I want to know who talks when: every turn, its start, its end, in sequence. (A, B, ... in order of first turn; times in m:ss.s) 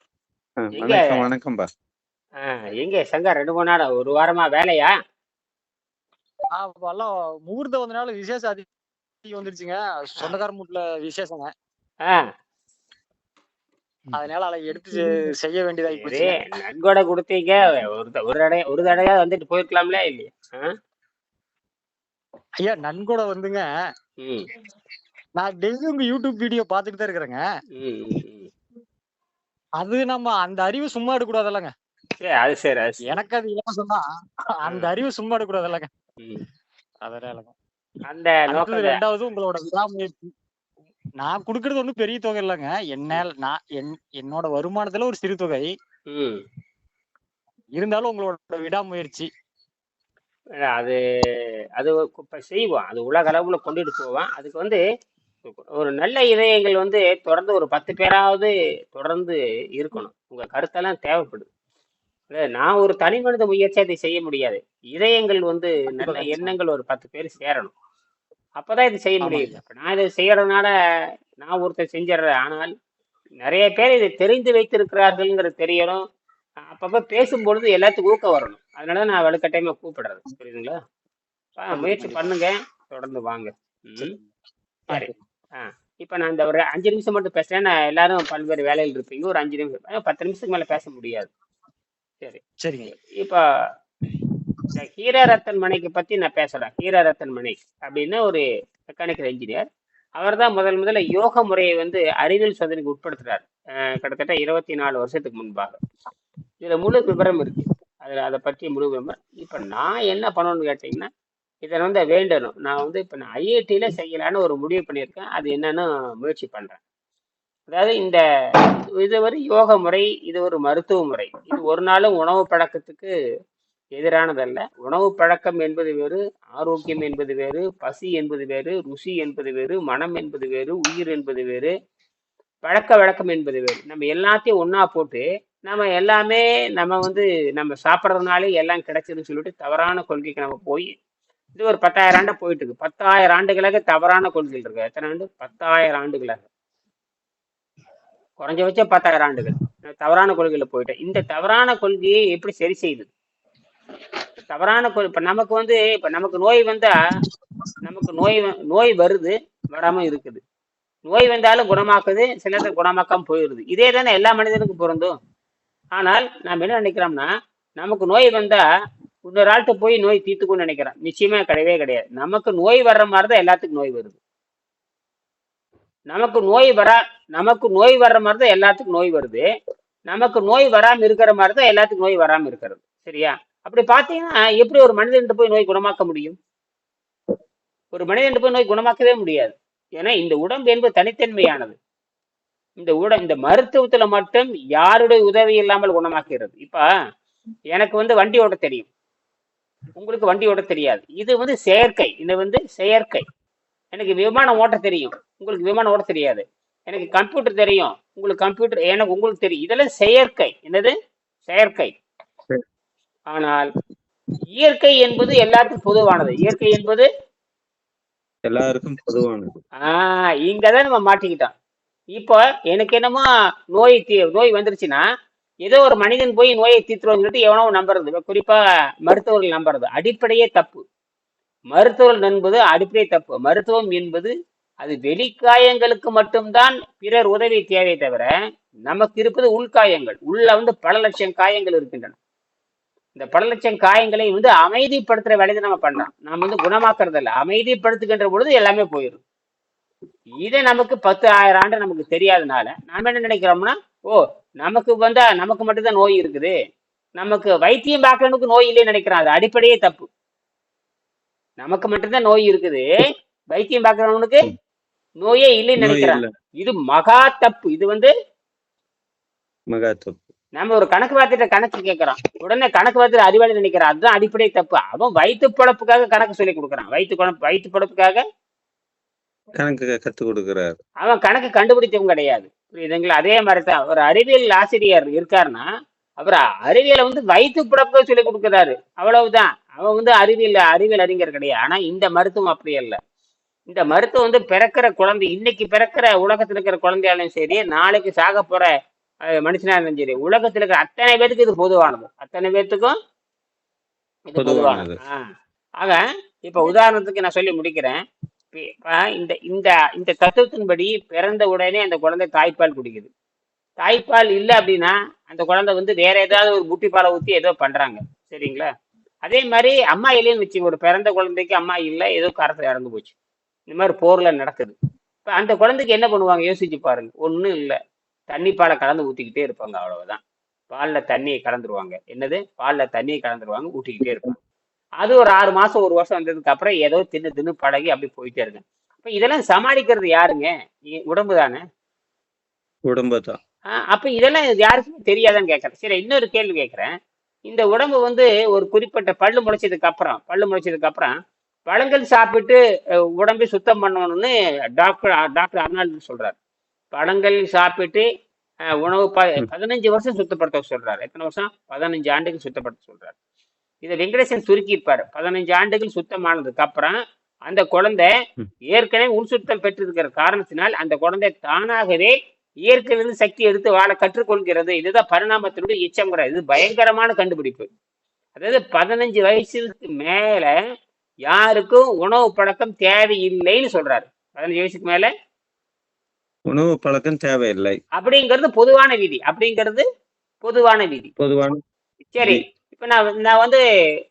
0:00.6-0:01.7 A
0:00.8-0:01.2 B
0:02.4-0:04.9 B
0:06.6-0:08.7 C
0:09.2-0:11.5 C
0:14.1-0:16.4 C
0:15.9-0:20.7 B
0:22.6-0:23.6 C
0:25.4-0:27.4 C
0:27.8-0:28.5 B
0:29.8-0:31.7 C
0:32.2-0:33.0 B
0:33.1-0:35.9 C
0:37.0-0:37.5 C
0:38.1-0:39.0 B
0:38.5-0:40.3 C
0:41.2-0:45.7 C
0:46.1-0:46.4 B
0:47.7-0:49.3 C
0:50.7-0:51.0 B
0:51.8-0:54.8 B
0:55.4-1:01.4 B
1:02.3-1:07.7 B
1:05.9-1:06.5 C
1:08.6-1:10.7 B
1:09.2-1:09.6 C
1:11.4-1:12.7 B
1:13.4-1:16.0 B
1:16.6-1:20.8 B
1:21.6-1:24.2 B
1:21.7-1:22.2 C
1:24.9-1:31.3 B
1:32.6-1:32.9 C
1:34.7-1:39.6 B
1:40.2-1:45.8 B
1:46.6-1:51.1 B
1:51.6-1:56.8 B
1:57.7-1:58.2 B
1:59.0-2:03.1 B
2:04.0-2:11.7 B
2:12.6-2:20.9 B
2:21.6-2:26.4 B
2:28.4-2:33.1 B
2:34.5-2:37.0 B
2:37.8-2:40.4 B
2:41.1-2:45.2 B
2:46.0-2:48.6 B
2:49.3-2:54.2 B
2:56.1-2:59.4 B
3:00.1-3:06.4 B
3:07.9-3:11.8 B
3:12.8-3:16.8 B
3:17.7-3:18.9 B
3:20.0-3:23.2 B
3:23.9-3:30.9 B
3:31.5-3:31.9 B
3:33.3-3:33.7 B
3:34.6-3:37.1 B
3:38.4-3:39.6 A
3:39.8-3:41.5 B
3:42.1-3:45.0 B
3:45.6-3:50.8 B
3:51.7-3:58.3 B
3:58.9-4:02.2 B
4:03.2-4:09.2 B
4:10.4-4:16.5 B
4:17.2-4:20.0 B
4:21.6-4:22.8 B
4:23.5-4:24.4 B
4:25.2-4:28.1 B
4:25.8-4:26.3 A
4:29.7-4:30.2 A
4:30.6-4:38.2 B
4:39.6-4:40.8 A
4:41.0-4:45.7 B
4:46.2-4:53.0 B
4:53.7-4:58.7 B
4:59.3-5:02.9 B
5:04.3-5:05.2 B
5:04.4-5:05.0 A
5:05.8-5:08.0 B
5:08.5-5:13.1 B
5:13.8-5:18.7 B
5:19.2-5:23.1 B
5:23.7-5:27.8 B
5:28.3-5:34.4 B
5:35.0-5:41.6 B
5:42.9-5:43.4 A
5:43.9-5:46.9 B
5:47.5-5:51.1 B
5:51.7-5:52.6 B
5:53.2-5:56.4 B
5:56.9-5:58.1 B
5:58.8-6:03.2 B
6:03.8-6:08.1 B
6:08.7-6:17.7 B
6:18.4-6:20.5 B
6:21.3-6:25.1 B
6:26.5-6:27.8 A
6:28.0-6:29.8 B
6:30.4-6:31.1 B
6:31.2-6:31.6 A
6:32.1-6:33.6 B